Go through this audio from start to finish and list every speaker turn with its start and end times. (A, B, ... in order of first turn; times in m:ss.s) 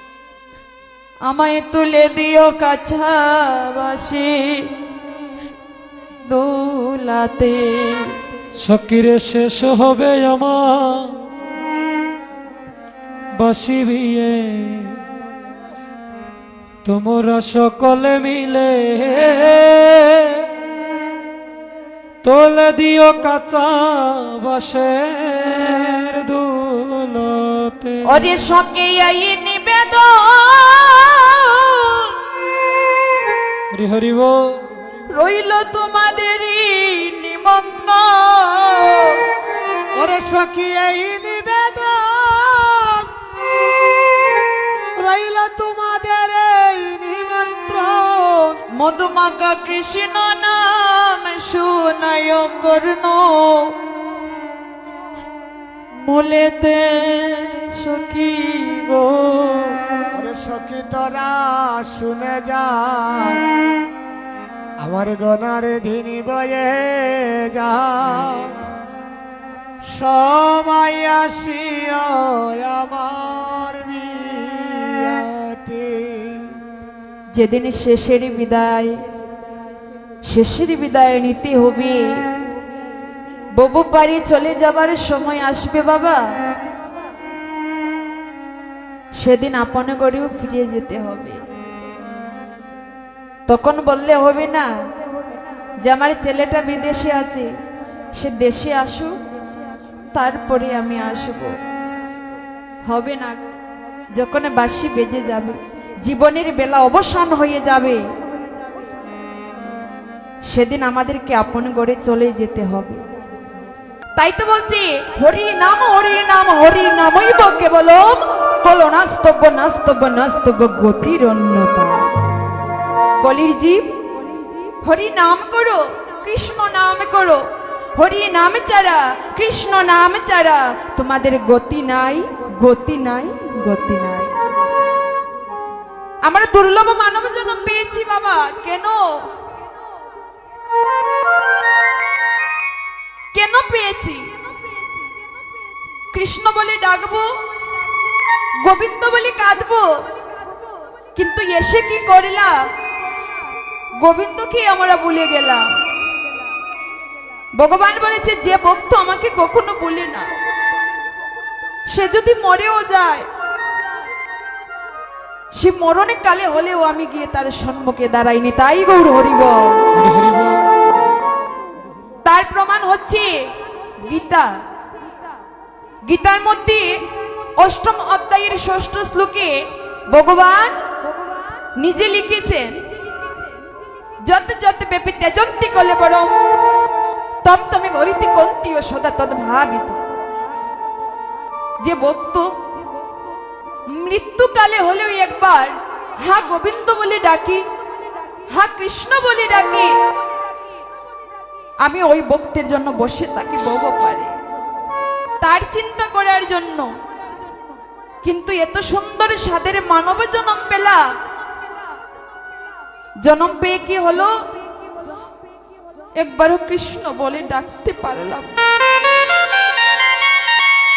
0:01.3-0:04.7 A
0:06.3-0:08.1 A
0:08.6-0:11.2 B
0:13.4-0:15.0 B
0:16.8-0:20.5 B
0:22.2-0:28.3 B
0:28.0-0:32.1 A
0:33.7-0:34.7 B
0:35.1-0:39.2 A
0:39.9-0:43.1 C
0:45.0-0:48.6 C
0:48.8-0:53.7 A
0:56.0-0:59.8 A
1:00.1-1:03.4 C
1:04.8-1:08.5 C
1:09.9-1:16.5 C
1:17.3-1:19.0 A
1:20.2-1:22.1 A
1:23.6-1:26.2 A
1:29.2-1:31.4 A
1:33.5-1:34.7 A
1:35.8-1:37.5 A
1:38.1-1:39.1 A
1:40.1-1:41.5 A
1:42.8-1:43.5 A
1:44.1-1:48.0 A
1:50.5-1:53.0 A
1:54.2-2:02.1 A
2:03.2-2:03.9 A
2:04.8-2:07.4 A
2:08.0-2:14.4 A
2:16.2-2:19.2 A
2:23.3-2:24.2 A
2:26.1-2:27.3 A
2:28.6-2:29.9 A
2:31.1-2:32.5 A
2:34.0-2:35.6 A
2:37.6-2:40.3 A
2:41.9-2:43.3 A
2:45.6-2:49.8 A
2:49.9-2:50.6 B
2:52.2-2:53.3 A
2:54.0-2:54.4 A
2:56.1-2:56.9 A
2:57.6-2:59.6 A
3:00.1-3:00.8 A
3:01.8-3:02.8 A
3:04.2-3:06.4 A
3:07.4-3:10.1 A
3:11.8-3:12.5 A
3:13.9-3:17.6 A
3:18.5-3:19.9 A
3:21.8-3:24.3 A
3:25.4-3:26.9 A
3:28.2-3:31.0 A
3:33.2-3:34.3 A
3:36.2-3:38.6 A